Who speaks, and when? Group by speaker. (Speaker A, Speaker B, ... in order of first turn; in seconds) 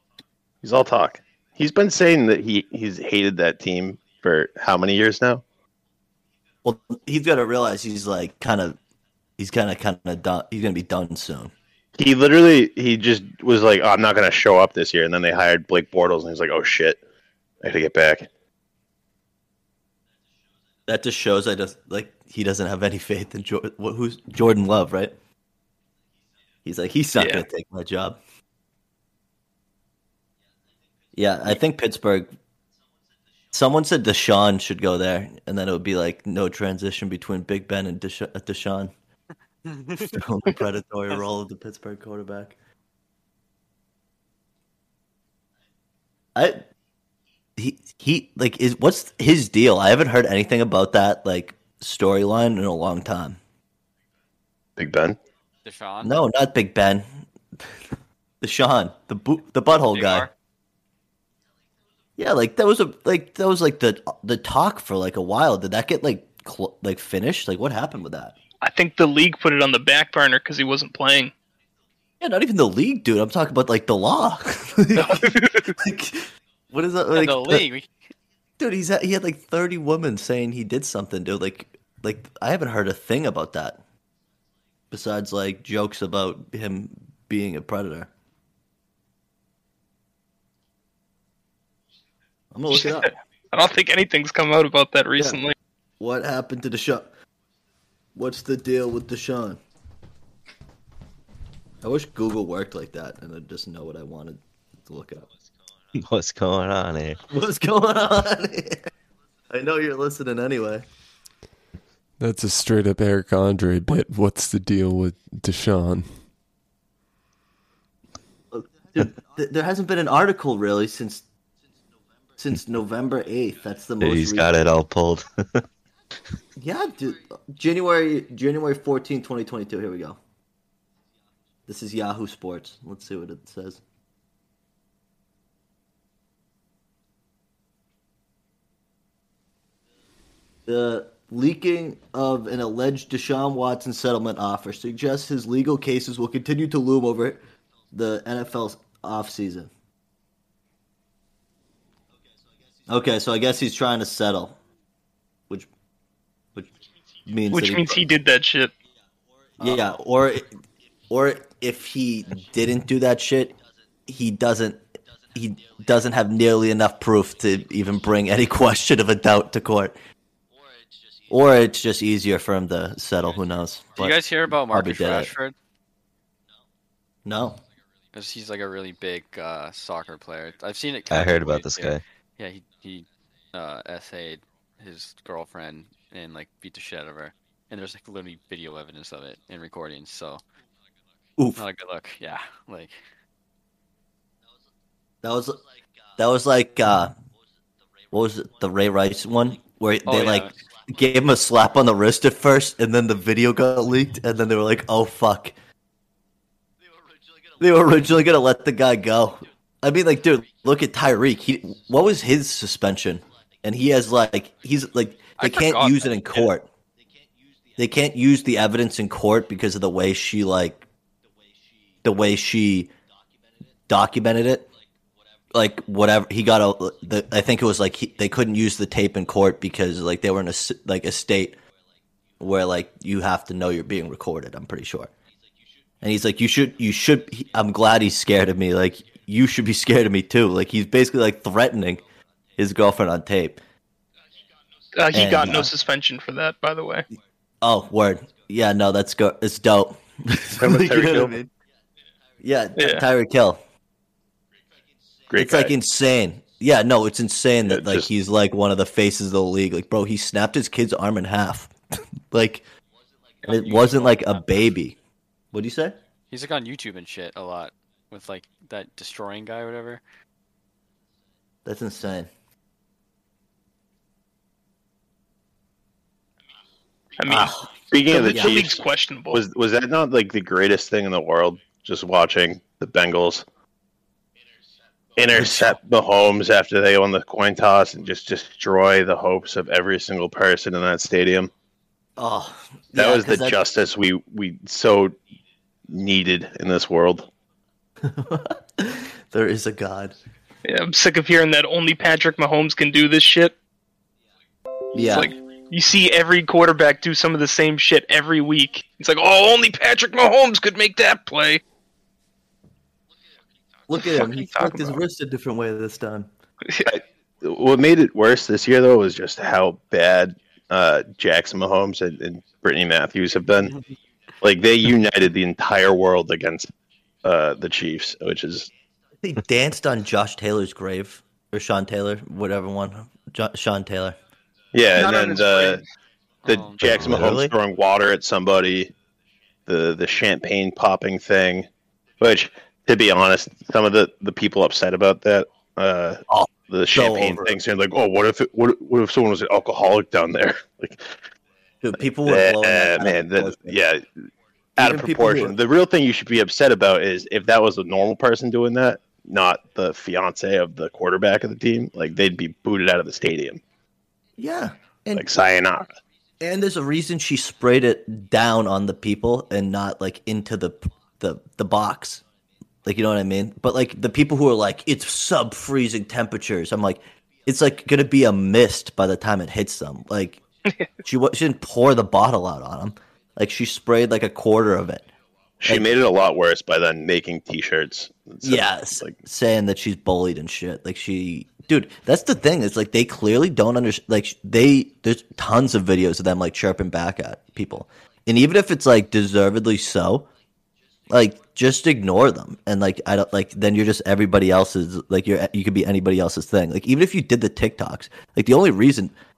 Speaker A: 0.6-5.4, 12.0-17.0, 17.6-18.3, 54.8-55.2, 250.6-251.3, 255.3-255.7, 257.7-258.1, 277.4-278.8, 279.3-283.4, 285.2-291.5, 293.0-295.2, 295.9-297.3, 316.9-323.8, 324.4-326.7, 327.2-328.7, 334.7-335.8, 336.5-338.9, 339.7-341.7, 342.2-351.1, 352.3-354.1, 354.8-363.6, 365.2-365.9, 385.6-389.1
Speaker B: 6.6-8.8, 9.4-11.5, 20.9-25.1, 26.6-28.2, 31.2-32.4, 33.5-38.9, 40.1-42.6, 46.4-46.6, 47.6-53.4, 56.0-57.1, 58.4-60.3, 62.2-68.4, 72.2-77.6, 78.6-83.8, 84.9-88.1, 92.5-93.1, 96.0-97.1, 98.2-99.6, 101.8-105.3, 107.3-108.9, 109.5-110.8, 118.5-121.2, 122.4-124.5, 126.6-130.2, 131.7-133.8, 140.7-149.7, 152.9-154.6, 157.3-158.1, 159.6-160.6, 161.1-164.8, 165.3-170.0, 171.3-175.3, 177.3-177.6, 195.2-195.6, 196.2-197.2, 198.1-205.6, 207.6-216.7, 217.8-220.8, 222.0-222.9, 223.9-224.7, 225.5-231.6, 232.4-235.1, 236.0-242.0, 242.6-243.6, 245.1-245.7, 247.6-251.5, 252.4-253.6, 255.3-261.7, 262.3-262.6, 263.4-265.0, 265.5-266.0, 271.6-272.3, 277.3-277.7, 278.3-278.7, 285.3-285.8, 292.2-293.6, 298.0-300.2, 304.9-305.3, 313.9-316.3, 329.2-334.2, 336.8-337.5, 346.3-347.6, 351.8-353.8, 354.8-355.6, 364.4-365.3, 366.4-372.2, 372.9-380.4, 381.0-385.1, 388.4-400.3, 401.1-409.1
Speaker C: 27.2-27.4, 68.6-71.3, 75.0-75.8, 92.7-95.5, 157.5-158.7, 245.0-247.1, 252.8-253.0, 277.2-277.6, 278.1-279.4, 300.6-303.6, 304.9-311.6, 314.0-315.0, 334.9-335.8
Speaker D: 39.6-40.2, 55.6-56.2, 59.7-60.3, 77.1-77.9, 174.0-175.6, 178.1-190.4, 191.6-193.0, 200.1-200.6, 215.4-216.5, 263.5-264.4, 266.3-270.0, 336.4-336.8
Speaker E: 106.0-107.2, 124.0-125.6, 181.1-182.0, 337.0-337.4
Speaker F: 112.2-116.2